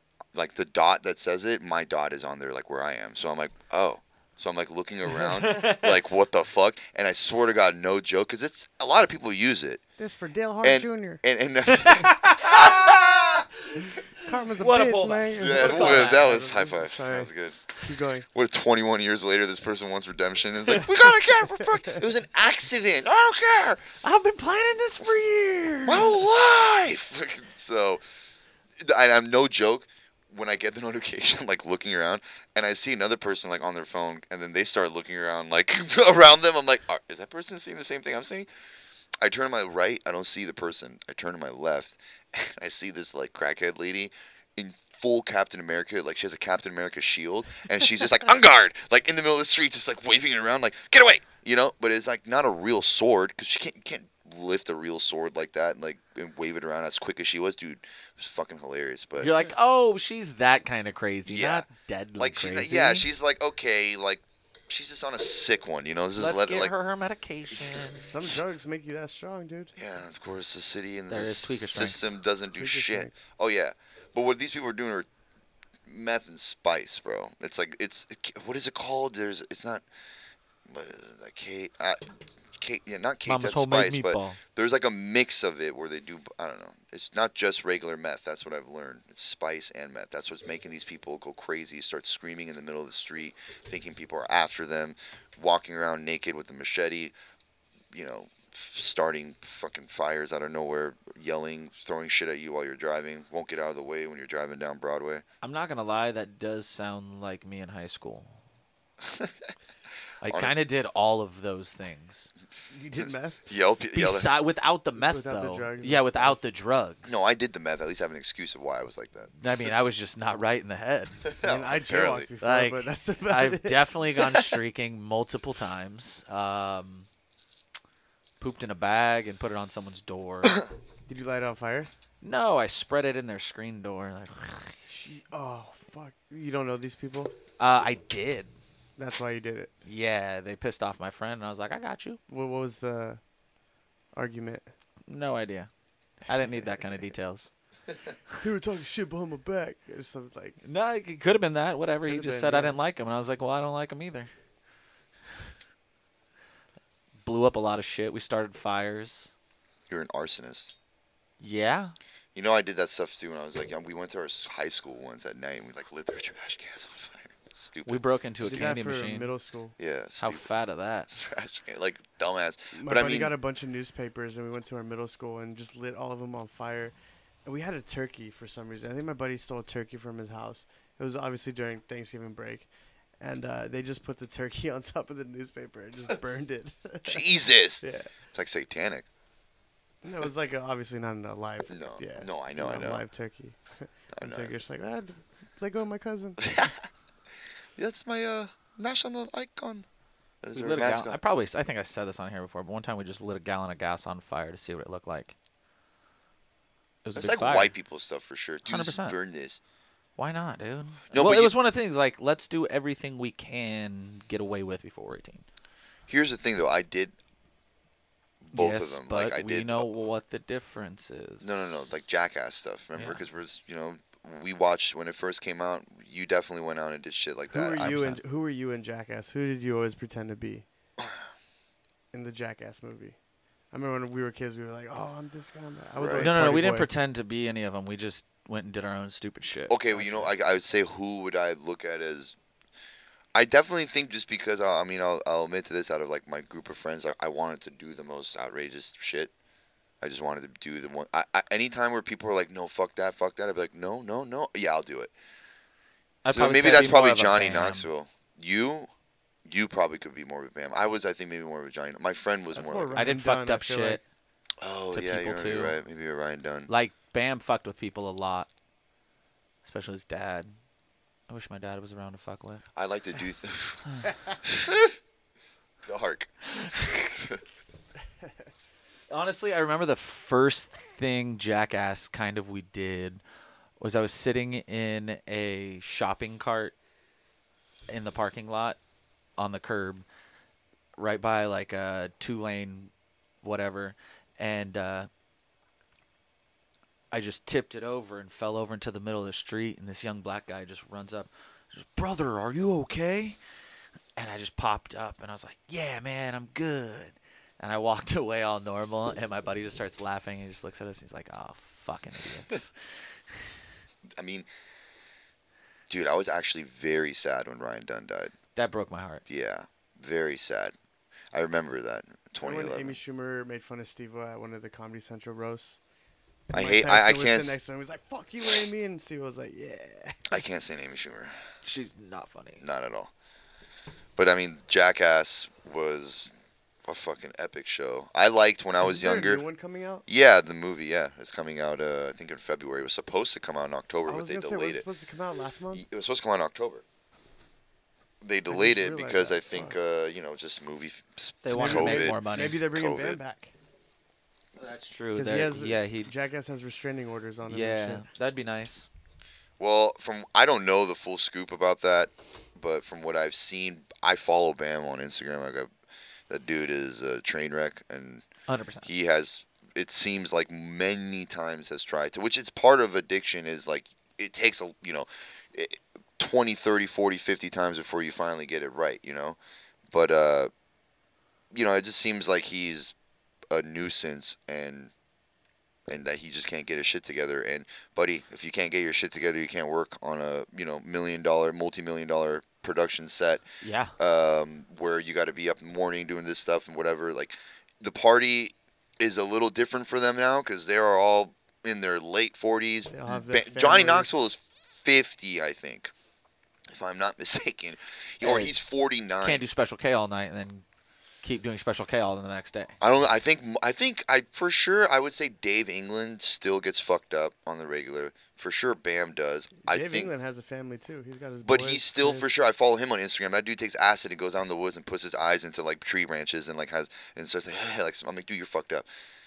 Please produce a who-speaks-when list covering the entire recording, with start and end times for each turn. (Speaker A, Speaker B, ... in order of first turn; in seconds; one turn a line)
Speaker A: 0.3-9.8
Speaker B: 5.2-5.9
Speaker C: 10.0-11.2
Speaker A: 10.6-13.4
Speaker B: 11.7-16.3
Speaker C: 14.1-18.3
Speaker A: 15.4-17.6
Speaker A: 18.3-23.8
Speaker B: 24.0-26.1
Speaker A: 25.8-28.0
Speaker A: 28.8-38.5
Speaker A: 39.2-59.3
Speaker B: 59.2-63.0
Speaker A: 61.2-61.7
Speaker A: 62.2-66.7
Speaker B: 66.2-68.1
Speaker C: 68.0-69.7
Speaker A: 69.7-75.1
Speaker B: 71.1-72.0
Speaker C: 72.5-73.1
Speaker A: 75.8-79.8
Speaker A: 80.7-97.1
Speaker B: 83.2-84.4
Speaker A: 97.9-105.2
Speaker B: 105.4-108.4
Speaker A: 109.0-109.5
Speaker B: 110.2-112.3
Speaker A: 110.2-110.5
Speaker C: 112.7-113.4
Speaker A: 113.0-114.3
Speaker B: 113.9-117.2
Speaker C: 115.0-116.4
Speaker A: 117.0-119.3
Speaker B: 119.4-121.3
Speaker A: 121.2-122.3
Speaker C: 121.4-124.4
Speaker B: 122.4-127.1
Speaker B: 128.4-130.6
Speaker C: 131.1-131.9
Speaker B: 132.2-134.8
Speaker C: 134.9-137.3
Speaker B: 137.6-138.5
Speaker C: 139.0-139.7
Speaker B: 139.8-142.2
Speaker C: 142.3-143.2
Speaker C: 144.1-144.7
Speaker B: 145.1-145.7
Speaker B: 146.2-147.5
Speaker C: 148.4-150.6
Speaker B: 150.6-154.3
Speaker C: 152.0-152.8
Speaker B: 157.2-159.3
Speaker A: 159.9-160.7
Speaker B: 161.4-161.9
Speaker A: 162.3-168.8
Speaker B: 167.8-169.3
Speaker C: 168.4-169.7
Speaker A: 169.8-170.5
Speaker B: 170.2-171.1
Speaker A: 171.1-173.3
Speaker C: 172.7-176.9
Speaker C: 177.4-182.7
Speaker C: 183.2-188.1
Speaker A: 187.0-189.1
Speaker C: 190.0-196.4
Speaker A: 191.7-193.0
Speaker A: 194.2-194.5
Speaker A: 196.4-196.8
Speaker A: 197.8-199.8
Speaker A: 200.4-201.2
Speaker B: 200.5-205.3
Speaker B: 207.0-207.7
Speaker A: 207.2-209.6
Speaker B: 208.7-209.2
Speaker B: 210.2-215.4
Speaker A: 211.1-211.5
Speaker A: 216.1-217.1
Speaker A: 218.4-219.9
Speaker B: 218.5-221.9
Speaker A: 221.4-228.1
Speaker B: 222.9-223.2
Speaker C: 227.5-230.7
Speaker B: 227.8-228.2
Speaker C: 232.1-233.2
Speaker C: 233.7-236.9
Speaker A: 236.0-236.3
Speaker B: 236.2-239.8
Speaker A: 239.7-242.3
Speaker C: 239.9-240.2
Speaker A: 243.3-249.3
Speaker A: 250.0-255.1
Speaker B: 256.2-257.9
Speaker A: 256.3-258.9
Speaker A: 259.4-263.0
Speaker C: 262.5-264.0
Speaker B: 262.9-264.0
Speaker A: 264.6-266.7
Speaker B: 264.9-265.8
Speaker B: 266.7-268.5
Speaker B: 269.6-270.5
Speaker B: 271.3-272.6
Speaker A: 272.7-273.9
Speaker A: 274.4-274.9
Speaker A: 275.8-277.4
Speaker B: 279.1-283.2
Speaker B: 283.8-286.8
Speaker B: 287.9-288.8
Speaker B: 289.4-290.0
Speaker B: 291.0-292.9
Speaker B: 293.4-295.1
Speaker B: 297.1-303.4
Speaker B: 304.1-312.7
Speaker A: 314.2-314.5
Speaker A: 315.9-318.3
Speaker B: 318.5-319.2
Speaker A: 319.3-320.7
Speaker A: 321.3-323.0
Speaker C: 322.4-325.8
Speaker C: 326.5-330.4
Speaker A: 326.5-327.6
Speaker A: 330.3-331.3
Speaker B: 331.6-332.6
Speaker A: 332.6-333.1
Speaker A: 334.2-336.3
Speaker A: 336.8-339.4
Speaker C: 338.8-340.0
Speaker A: 340.1-344.9
Speaker C: 344.1-345.8
Speaker A: 345.7-346.8
Speaker A: 348.2-352.2
Speaker C: 348.5-349.8
Speaker B: 351.4-352.6
Speaker C: 351.5-353.5
Speaker A: 352.7-353.2
Speaker B: 354.6-356.1
Speaker C: 355.1-358.1
Speaker B: 357.5-358.9
Speaker A: 359.6-365.7
Speaker A: 366.3-368.2
Speaker B: 368.5-368.9
Speaker A: 368.8-379.4
Speaker A: 379.9-380.5
Speaker A: 381.5-382.9
Speaker A: 383.5-384.9
Speaker A: 385.9-393.4
Speaker B: 393.6-393.9
Speaker A: 394.0-405.9
Speaker C: 402.9-404.1
Speaker A: 406.7-409.4
Speaker B: 408.2-408.5
Speaker B: 409.2-410.6
Speaker B: 411.2-412.7
Speaker A: 412.8-420.1
Speaker C: 419.6-422.3
Speaker A: 421.4-428.9